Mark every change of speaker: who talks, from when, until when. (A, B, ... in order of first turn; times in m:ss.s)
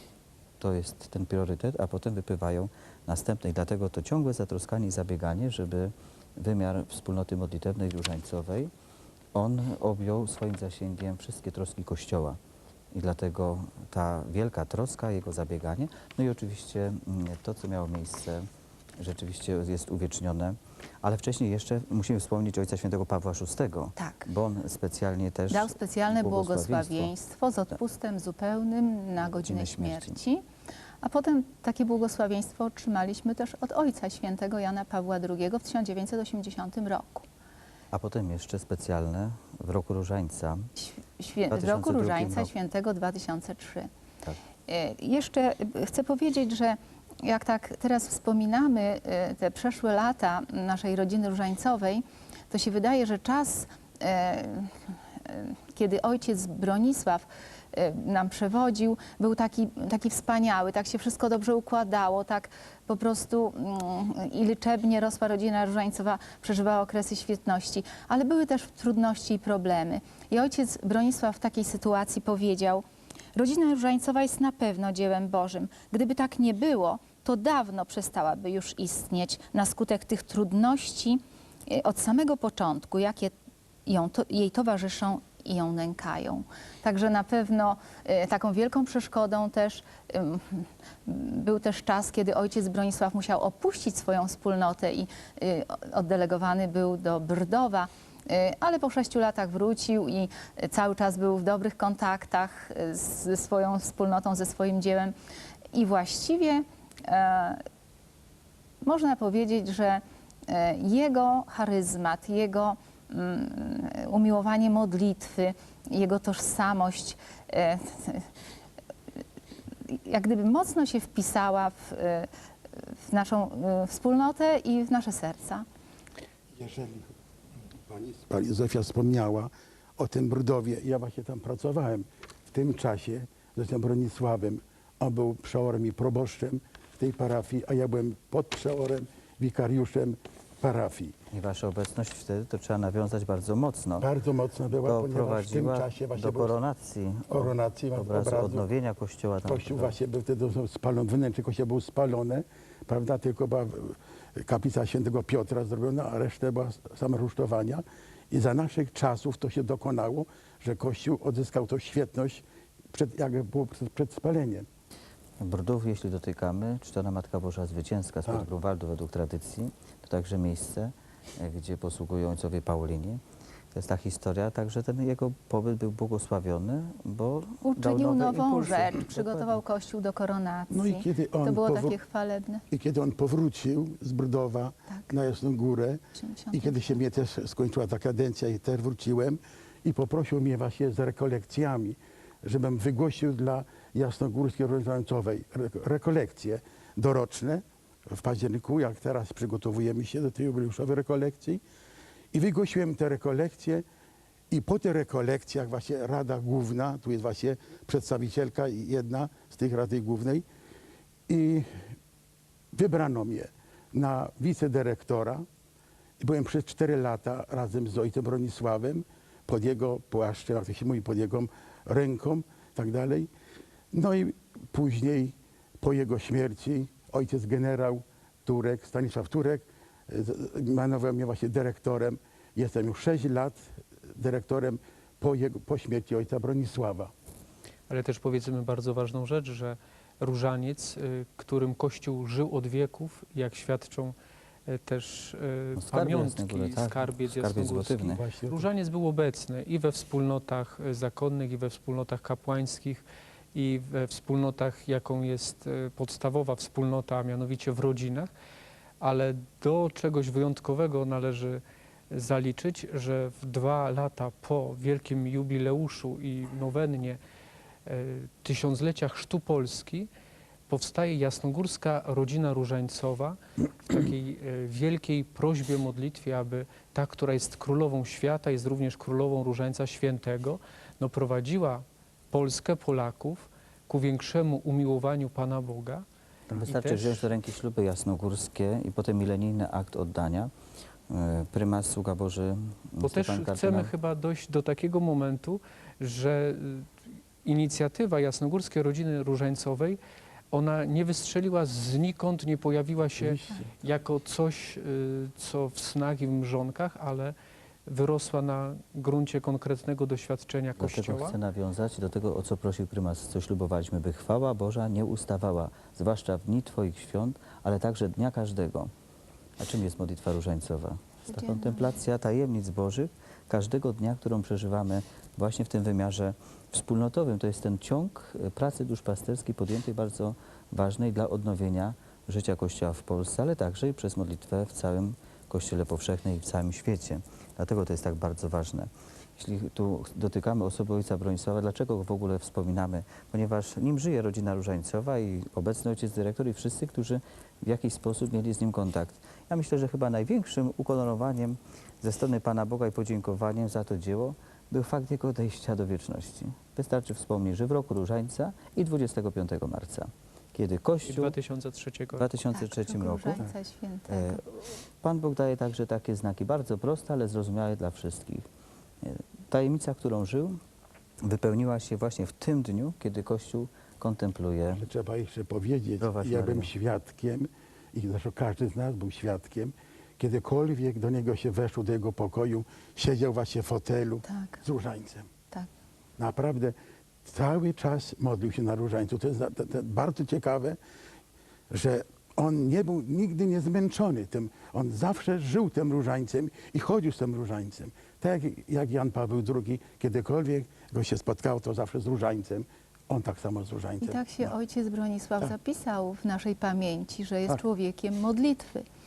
0:00.6-0:08.7 A
0:09.3-0:12.4 A
0:12.9-0:18.4 A
0:19.0-0:27.1 A
0:24.0-0:24.3 B
0:25.5-0:30.4 B
0:29.4-0:30.2 A
0:31.0-0:37.2 B
0:37.9-0:40.7 A
0:40.8-0:43.9 B
0:41.5-0:42.5 A
0:44.7-1:12.8 B
1:13.3-1:23.3 B
1:23.8-1:45.1 B
1:45.7-1:47.6 B
1:48.8-1:58.3 B
1:59.8-2:02.3 B
2:02.8-2:05.6 B
2:06.6-2:07.1 C
2:07.9-2:21.1 C
2:21.3-2:24.1 A
2:24.0-2:26.5 C
2:24.8-2:30.0 A
2:27.3-2:28.7 C
2:29.4-2:44.7 C
2:45.4-2:53.2 A
2:53.7-2:59.6 A
2:57.6-3:02.6 B
3:00.7-3:02.0 C
3:02.7-3:06.0 C
3:06.2-3:06.8 B
3:06.5-3:21.6 C
3:22.3-3:23.8 C
3:24.5-3:30.4 C
3:31.3-3:31.7 C
3:32.7-3:35.4 C
3:36.2-3:43.3 C
3:43.9-3:53.6 C
3:54.2-3:57.1 C
3:57.9-4:04.1 D
4:04.7-4:18.3 D
4:05.8-4:08.2 A
4:08.1-4:08.7 C
4:19.0-4:27.2 D
4:27.8-4:30.1 D
4:30.7-4:46.0 D
4:46.5-4:50.5 A
4:46.6-4:47.2 D
4:51.1-4:53.9 A
4:53.0-4:56.9 D
4:57.4-5:00.0 D
5:00.5-5:07.3 D
5:03.2-5:03.7 C
5:07.8-5:11.4 D
5:10.8-5:18.9 A
5:19.6-6:01.3 A
5:21.3-5:21.9 B
6:01.0-6:02.3 D
6:02.2-6:03.4 A
6:02.5-6:04.4 B
6:04.1-6:08.4 A
6:09.0-6:10.6 A
6:11.2-6:14.8 A
6:14.8-6:25.3 C
6:16.0-6:16.7 A
6:24.3-6:24.6 B
6:26.2-6:30.8 C
6:31.7-6:44.5 C
6:44.0-6:48.8 B